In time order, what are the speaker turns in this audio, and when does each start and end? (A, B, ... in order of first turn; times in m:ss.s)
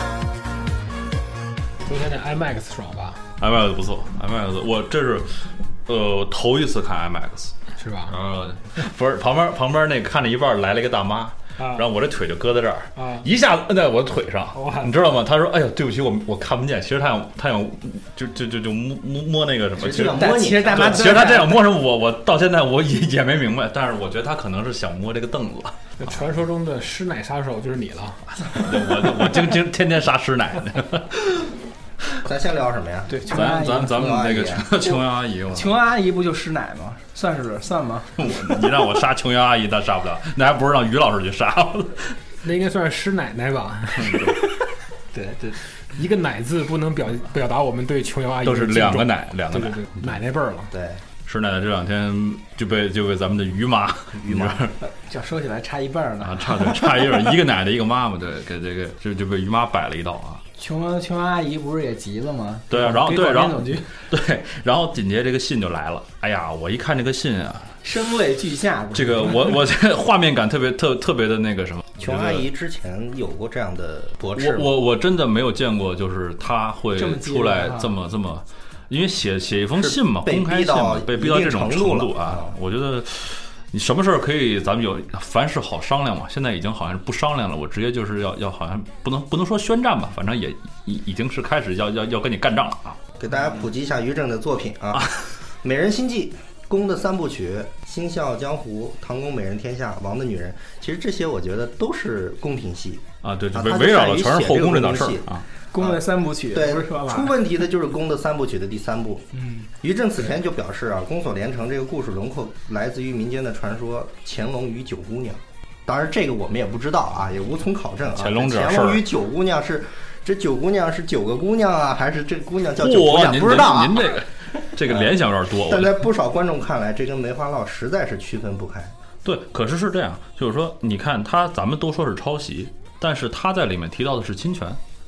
0:01.8-0:03.2 A
0:03.4-0:07.5 B
0:07.8-0:08.2 A
0:08.1-0:26.0 B
0:11.6-0:11.8 A
0:13.0-0:13.2 A
0:14.5-0:14.9 A
0:19.8-0:21.3 C
0:20.0-0:21.7 D
0:26.0-0:29.2 A
0:28.6-0:31.3 B
0:32.2-0:33.4 C
0:33.1-0:34.2 D
0:33.3-0:35.8 B
0:33.9-0:34.7 C
0:34.8-0:38.1 D
0:38.2-0:42.2 B
0:42.4-0:44.5 A
0:44.0-0:44.4 B
0:45.1-0:45.5 D
0:45.9-0:50.7 A
0:48.4-0:50.2 B
0:50.7-0:51.0 C
0:51.2-0:54.7 B
0:54.2-0:54.7 C
0:54.8-0:57.0 D
0:56.2-1:00.4 B
1:00.6-1:03.9 D
1:02.7-1:07.8 B
1:07.8-1:09.6 D
1:08.9-1:12.4 B
1:12.0-1:14.7 C
1:14.4-1:33.0 B
1:16.9-1:17.9 D
1:19.8-1:22.5 C
1:33.2-1:35.1 C
1:35.0-1:35.3 B
1:35.6-1:49.3 C
1:43.2-1:45.4 B
1:45.7-1:47.4 D
1:49.4-1:49.7 D
1:49.8-2:04.2 C
1:58.1-1:59.0 B
2:02.8-2:06.0 B
2:04.8-2:08.9 C
2:09.2-2:14.8 B